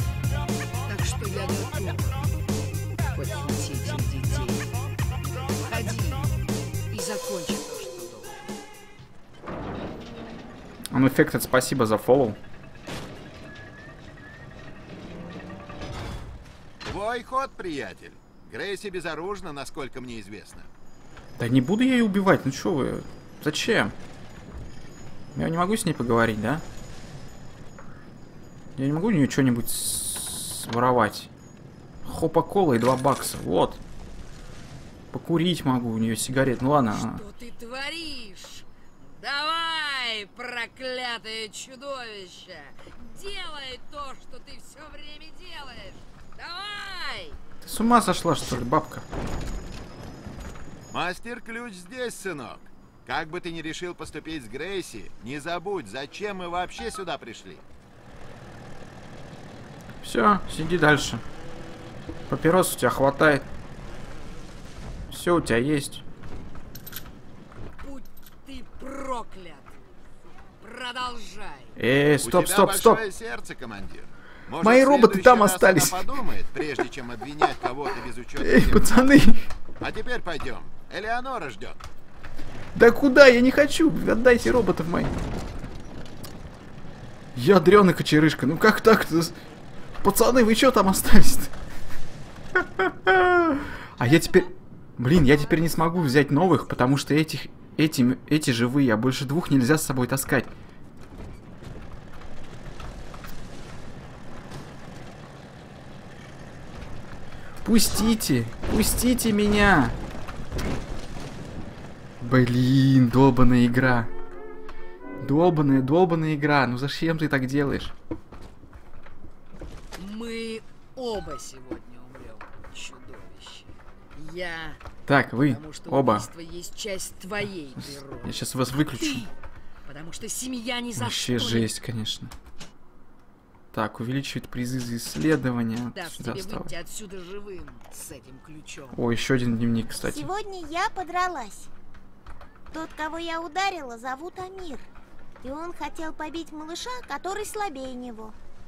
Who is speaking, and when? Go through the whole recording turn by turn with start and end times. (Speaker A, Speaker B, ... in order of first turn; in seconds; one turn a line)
Speaker A: 0.8-2.3
Speaker A: 3.1-4.8
Speaker A: 5.5-6.3
Speaker A: 6.9-8.4
Speaker B: 10.9-12.4
Speaker C: 16.8-20.7
Speaker B: 21.4-23.9
Speaker B: 25.4-26.6
Speaker B: 28.8-31.3
Speaker B: 32.0-33.8
Speaker B: 35.1-37.2
Speaker A: 36.9-47.4
Speaker B: 47.6-49.1
Speaker C: 50.9-57.6
Speaker B: 60.0-61.2
Speaker B: 62.3-63.5
Speaker B: 65.1-66.0
Speaker A: 67.8-69.8
Speaker A: 70.6-71.8
Speaker B: 71.8-73.0
Speaker C: 72.2-79.1
Speaker B: 74.6-76.0
Speaker B: 78.4-79.5
Speaker C: 79.8-81.8
Speaker B: 82.8-85.1
Speaker B: 87.3-89.4
Speaker B: 90.0-91.5
Speaker B: 92.6-100.5
Speaker B: 107.6-110.0
Speaker B: 112.2-114.1
Speaker B: 115.2-117.9
Speaker A: 120.0-124.8
Speaker B: 125.1-126.3
Speaker A: 125.4-129.3
Speaker B: 128.2-129.2
Speaker A: 129.8-131.7
Speaker B: 131.0-132.3
Speaker B: 133.7-136.7
Speaker A: 135.9-139.0
Speaker B: 138.9-140.3
Speaker D: 140.1-141.7
Speaker D: 142.7-144.9
Speaker D: 145.4-148.4